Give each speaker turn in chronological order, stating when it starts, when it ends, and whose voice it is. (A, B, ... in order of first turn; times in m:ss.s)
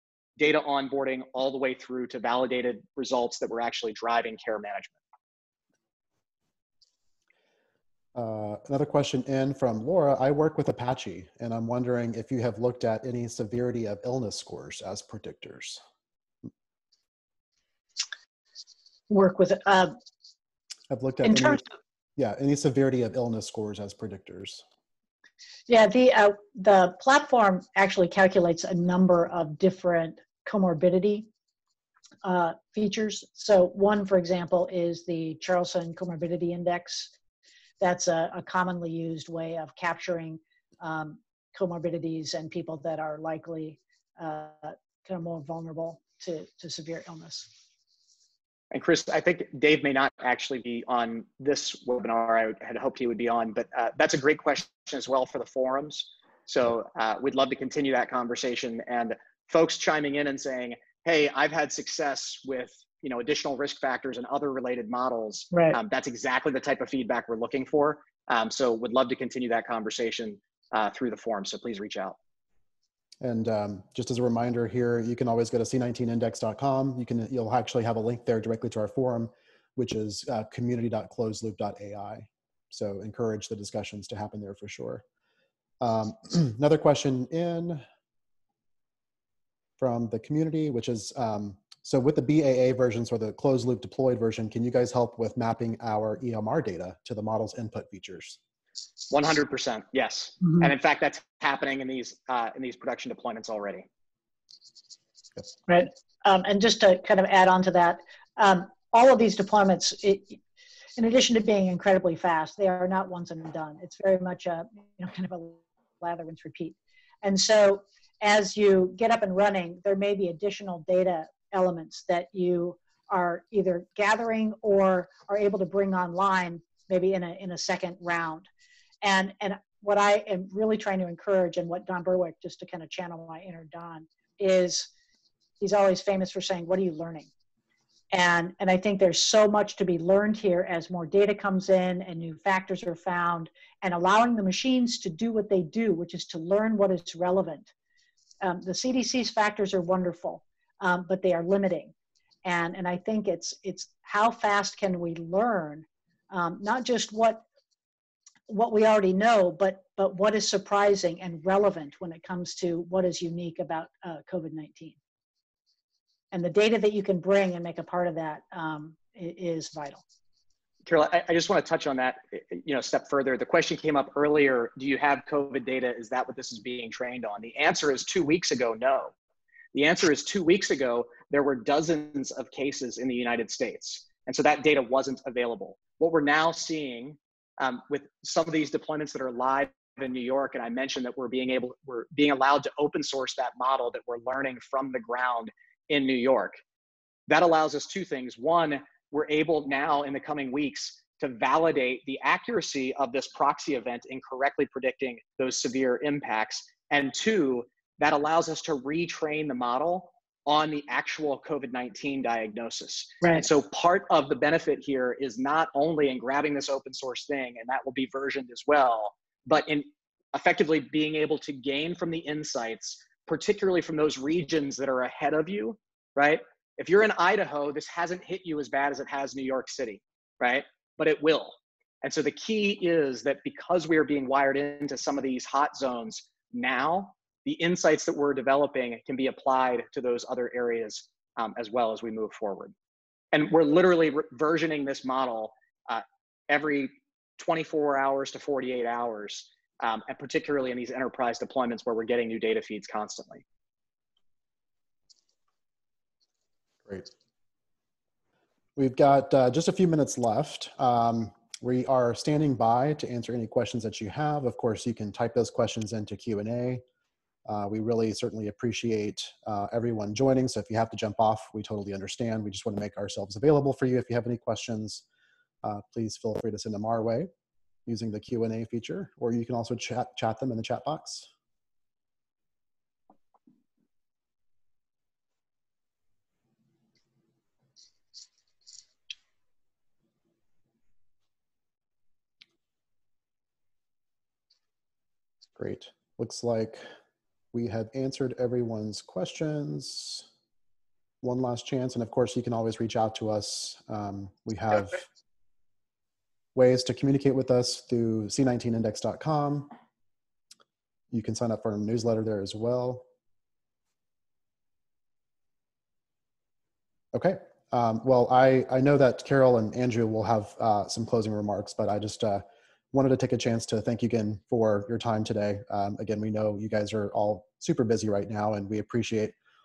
0:00.4-0:05.0 A
0:08.1-0:15.8 B
0:19.1-0:20.0 C
0:20.9-0:21.6 B
0:21.2-0:21.6 C
0:22.2-0:24.6 B
0:25.7-0:31.3 C
0:32.2-0:37.1 C
0:37.8-0:47.5 C
0:48.7-1:12.2 A
1:05.5-1:05.8 C
1:13.2-1:25.0 B
1:25.8-1:27.8 B
1:29.8-1:38.4 B
1:39.1-1:43.9 A
1:45.7-1:50.4 C
1:51.0-2:08.5 C
2:09.0-2:14.9 C
2:15.6-2:17.3 C
2:18.1-2:27.7 C
2:28.4-2:31.9 C
2:32.4-2:37.4 C
2:38.5-2:45.0 C
2:46.3-2:50.0 C
2:50.8-2:59.1 A
2:59.7-3:16.6 A
3:17.3-4:02.7 A
4:03.3-4:13.4 A
4:18.8-4:26.8 B
4:27.4-4:35.0 B
4:35.6-4:37.3 B
4:37.8-4:41.3 B
4:55.6-4:56.8 B
4:57.5-5:00.3 B
5:01.2-5:05.0 B
5:06.5-5:09.7 B
5:11.1-5:13.0 B
5:17.1-5:29.3 B